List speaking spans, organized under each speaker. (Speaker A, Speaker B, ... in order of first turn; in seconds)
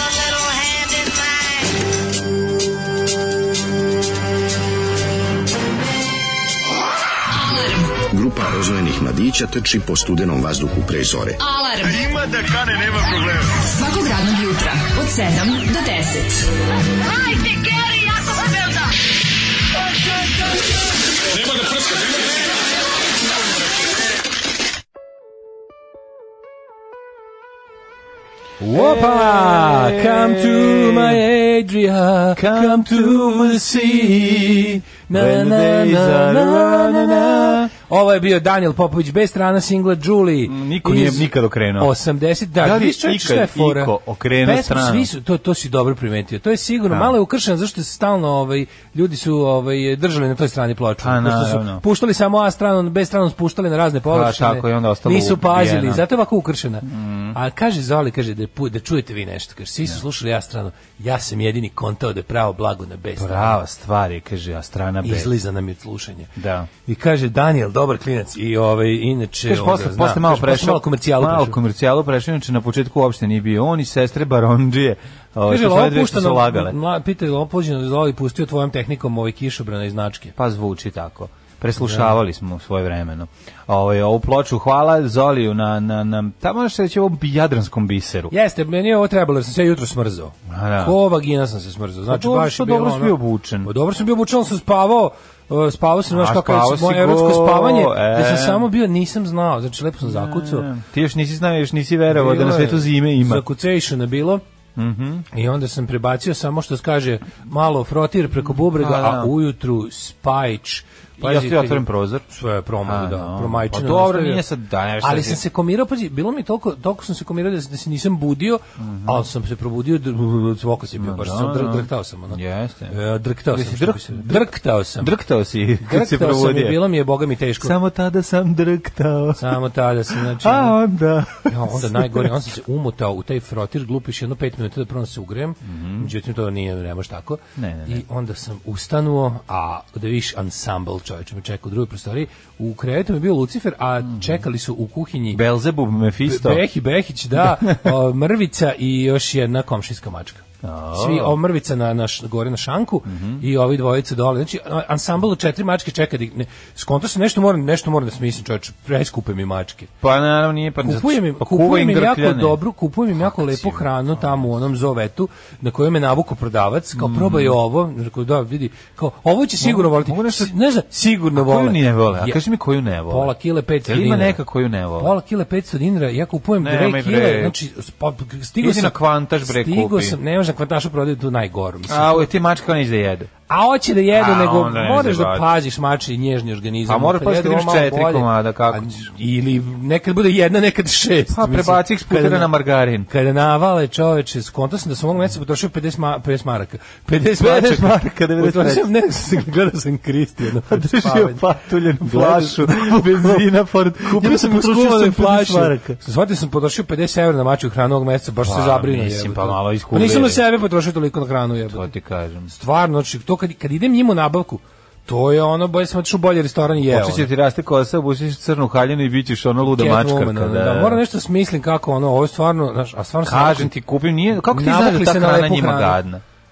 Speaker A: 7.3-7.9, 11.4-12.4, 13.1-16.5, 17.3-18.6
Speaker B: 8.0-11.4
Speaker C: 28.6-34.4, 35.1-63.6, 65.0-66.3, 66.8-71.5, 75.5-80.3, 81.8-82.1, 88.3-100.7, 102.1-104.4, 105.3-114.4, 115.0-125.1, 125.8-127.7, 129.3-130.8, 131.4-145.4, 146.2-159.9, 160.8-172.4, 173.1-174.4, 175.0-182.3, 183.5-192.5, 193.1-203.4, 204.0-211.9, 212.5-217.3, 219.6-223.7, 224.3-226.0
Speaker D: 28.7-31.2, 32.3-37.7, 40.4-41.9, 42.6-45.1, 46.9-47.1, 51.0-51.8, 54.1-56.0, 56.9-57.4, 63.2-65.3, 66.4-66.7, 69.5-76.7, 80.3-88.3, 90.5-91.0, 92.1-93.7, 96.1-98.7, 100.0-103.4, 104.8-105.3, 108.5-109.3, 111.2-112.2, 112.8-115.4, 118.8-119.2, 121.0-123.0, 123.5-126.9, 127.6-129.6, 130.1-132.3, 135.6-136.1, 137.6-138.0, 145.3-146.6, 147.3-147.9, 150.6-151.4, 153.1-153.4, 160.0-162.6, 163.2-164.5, 166.9-167.6, 169.6-170.5, 171.3-175.1, 176.6-177.5, 178.6-180.2, 181.9-183.3, 184.1-185.5, 186.8-189.1, 191.3-193.1, 197.4-199.0, 200.7-206.0, 208.4-210.4, 211.7-212.5, 216.8-221.0, 223.2-226.2